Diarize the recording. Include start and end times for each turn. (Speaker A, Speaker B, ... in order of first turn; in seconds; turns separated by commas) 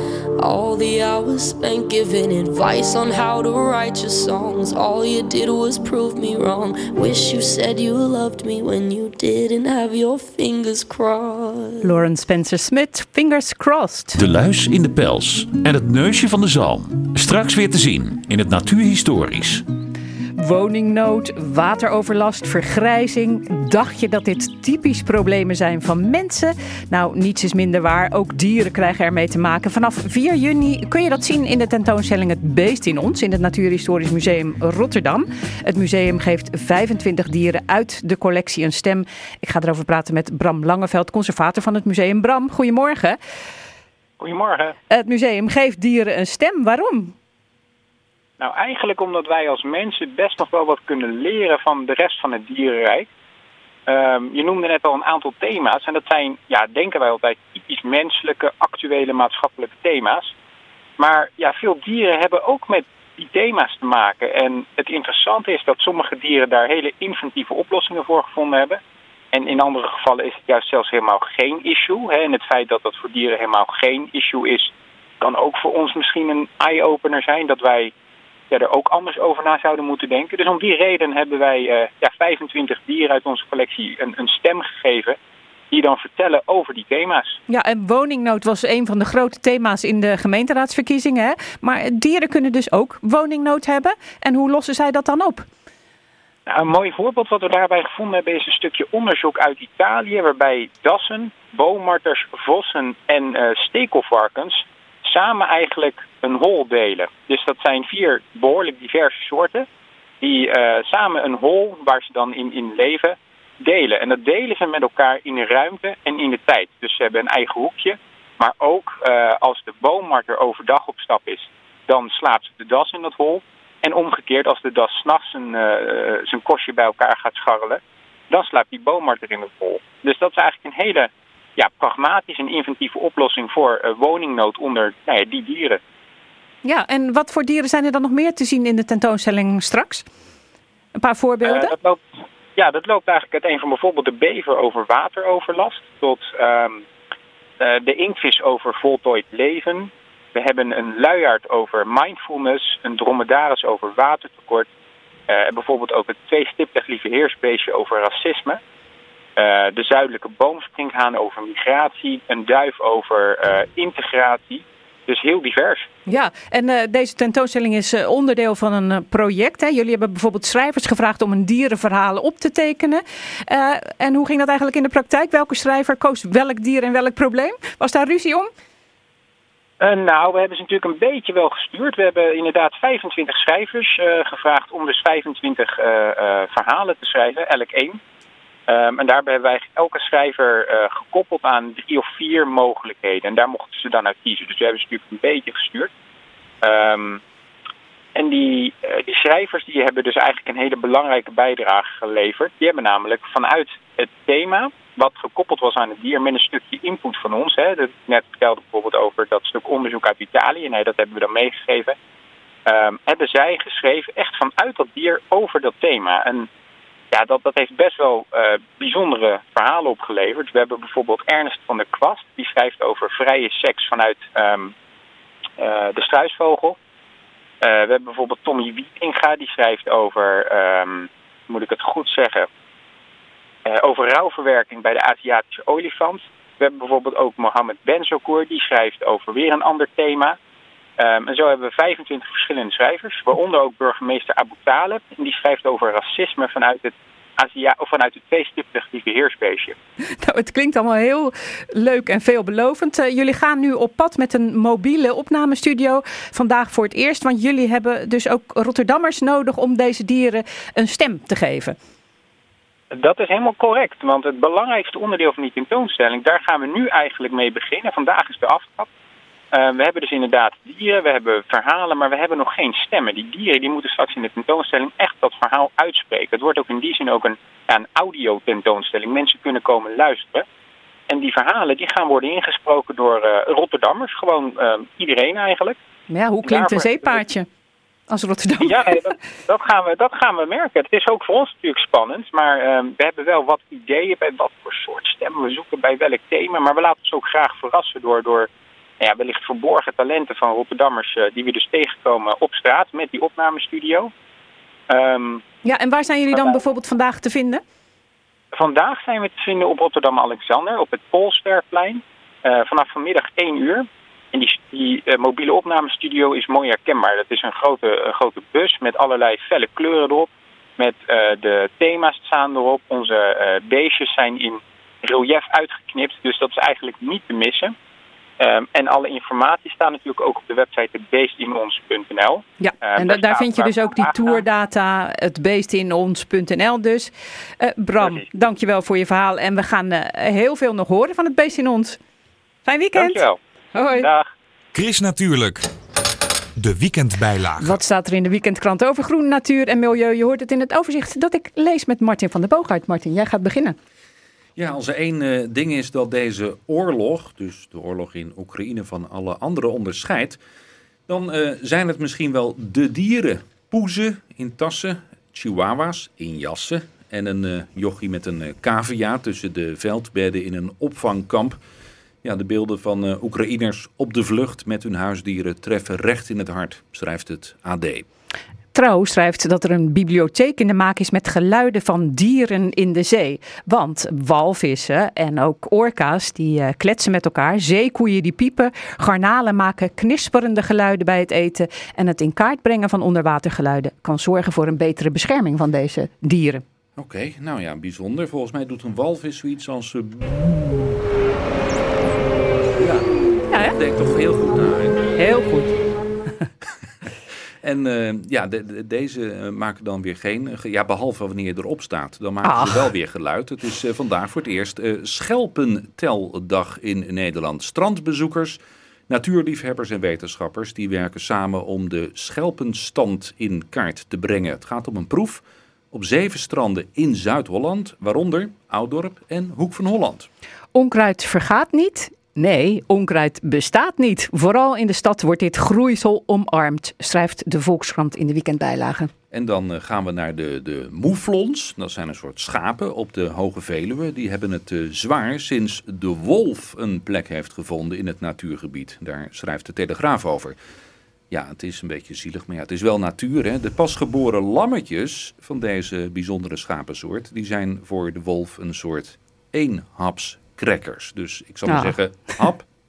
Speaker A: 0.4-11.9, Speaker B: 11.8-14.2, Speaker C: 14.2-19.6, Speaker B: 20.4-43.2, Speaker D: 44.2-44.7, Speaker B: 44.9-47.1, Speaker D: 48.4-53.1, Speaker D: 53.9-60.3, Speaker D: 61.0-68.8, Speaker D: 69.3-74.7, Speaker D: 75.2-77.9, Speaker D: 78.5-85.2, Speaker D: 85.7-87.4, Speaker B: 87.5-95.5, Speaker D: 96.5-109.7, Speaker D: 110.2-127.8, Speaker D: 128.3-135.8, Speaker B: 136.6-140.0, Speaker B: 141.0-141.7, Speaker D: 141.4-142.0, Speaker D: 142.6-146.8, Speaker D: 147.6-154.7, Speaker D: 155.3-158.6, Speaker D: 159.4-165.9, Speaker B: 166.1-178.5, Speaker D: 179.8-188.0, Speaker D: 188.7-195.9, Speaker D: 196.6-197.2, Speaker D: 198.2-211.9, Speaker D: 212.7-216.5, Speaker D: 217.1-224.7, Speaker D: 225.6-226.8, Speaker D: 227.6-232.5, Speaker D: 233.7-240.3, Speaker D: 241.0-249.8, Speaker B: 250.2-261.8, Speaker D: 262.9-268.9, Speaker D: 269.5-280.4, Speaker D: 281.1-285.8, Speaker B: 286.1-287.5, Speaker D: 286.4-287.2, Speaker B: 288.1-289.1, Speaker D: 288.6-298.5, Speaker D: 299.0-304.1, Speaker D: 304.9-305.4, Speaker B: 305.6-307.6, Speaker D: 306.3-306.6, Speaker D: 308.6-327.7, Speaker D: 328.4-334.4, Speaker B: 332.6-342.0, Speaker B: 342.6-344.1, Speaker D: 342.9-343.4, Speaker D: 343.9-344.3, Speaker C: 344.7-345.6, Speaker C: 346.6-347.8, Speaker B: 347.6-353.8, Speaker E: 354.6-360.4, Speaker E: 361.1-371.6, Speaker E: 372.2-378.1, Speaker B: 378.7-396.6, Speaker E: 396.9-400.8, Speaker E: 402.8-403.1, Speaker B: 403.5-403.8, Speaker E: 403.7-405.0, Speaker B: 405.1-405.7, Speaker E: 407.6-430.3, Speaker B: 412.4-412.9, Speaker B: 430.7-439.1, Speaker E: 439.3-450.6, Speaker E: 451.3-462.7, Speaker B: 461.7-461.9